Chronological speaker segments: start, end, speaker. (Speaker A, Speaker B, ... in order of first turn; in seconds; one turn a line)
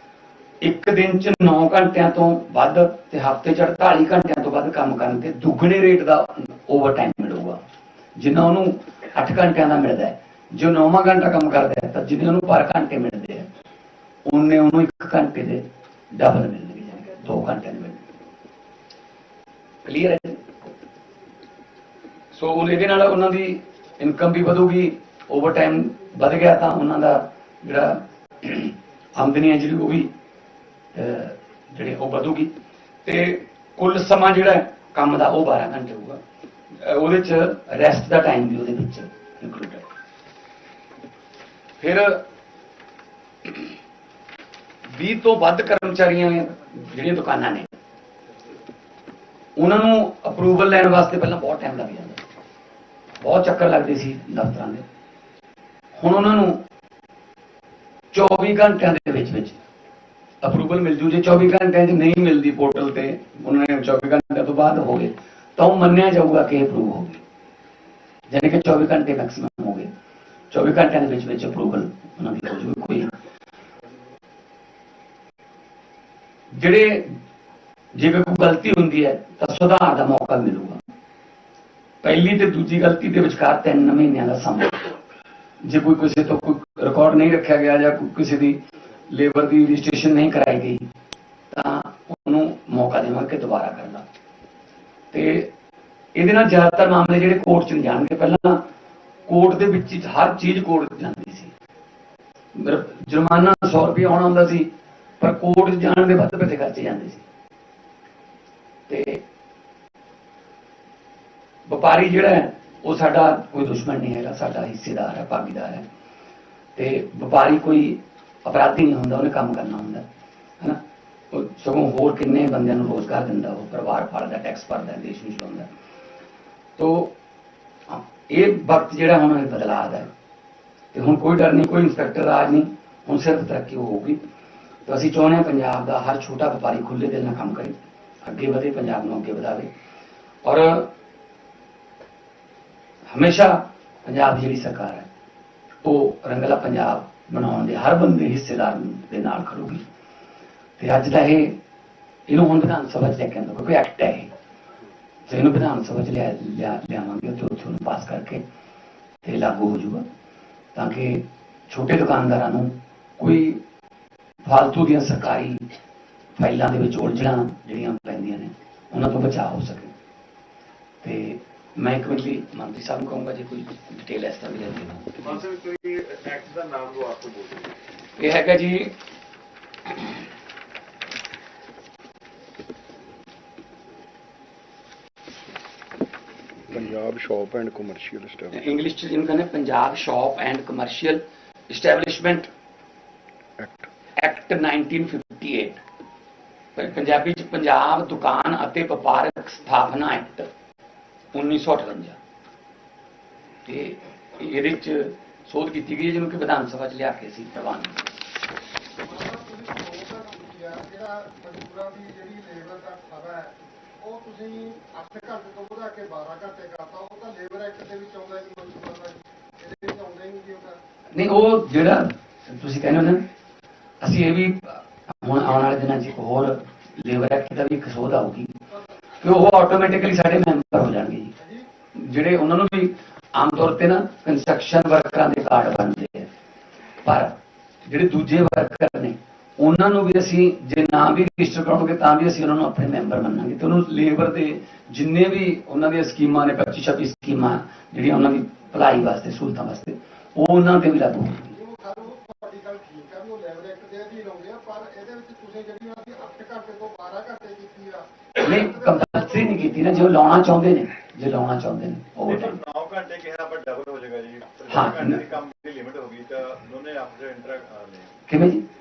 Speaker A: 0.6-7.6
Speaker A: 8.2-13.5
Speaker A: 14.2-18.0
Speaker A: 19.8-20.4
Speaker A: 22.3-30.1
Speaker A: 30.9-32.5
Speaker A: 33.0-36.2
Speaker A: 36.7-39.9
Speaker A: 41.8-42.2
Speaker A: 44.9-47.7
Speaker A: 49.6-52.2
Speaker A: 53.2-54.8
Speaker A: 56.0-56.6
Speaker A: 58.1-59.6
Speaker A: 60.4-67.2
Speaker A: 68.3-69.9
Speaker A: 70.5-73.1
Speaker A: 76.5-77.2
Speaker A: 77.9-80.8
Speaker A: 82.0-84.9
Speaker A: 85.6-90.8
Speaker A: 91.5-94.0
Speaker A: 95.1-95.5
Speaker A: 96.1-98.6
Speaker A: 99.3-101.5
Speaker A: 102.5-107.2
Speaker A: 108.9-109.2
Speaker A: 111.7-115.8
Speaker A: 116.8-120.0
Speaker A: 121.3-125.7
Speaker A: 126.8-127.1
Speaker A: 127.9-130.1
Speaker A: 130.9-134.2
Speaker A: 134.8-139.7
Speaker A: 140.4-140.9
Speaker A: 143.1-145.1
Speaker A: 145.8-149.8
Speaker A: 150.8-151.6
Speaker A: 152.3-154.3
Speaker A: 155.3-158.4
Speaker A: 159.2-160.1
Speaker A: 160.7-163.6
Speaker A: 164.4-165.6
Speaker A: 166.3-169.9
Speaker A: 171.0-175.4
Speaker B: 175.2-177.7
Speaker A: 178.2-178.9
Speaker C: 186.7-188.6
Speaker A: 188.5-192.5
Speaker C: 193.6-193.9
Speaker A: 194.2-195.8
Speaker A: 196.8-200.5
Speaker A: 201.3-202.2
Speaker A: 203.7-208.1
Speaker D: 209.0-220.8
Speaker A: 221.1-223.2
Speaker A: 224.0-228.5
Speaker A: 229.2-231.3
Speaker D: 231.4-231.7
Speaker A: 231.9-236.3
Speaker A: 237.0-251.5
Speaker D: 251.5-260.2
Speaker A: 258.4-262.6
Speaker B: 262.2-268.1
Speaker A: 264.7-265.2
Speaker A: 268.3-268.6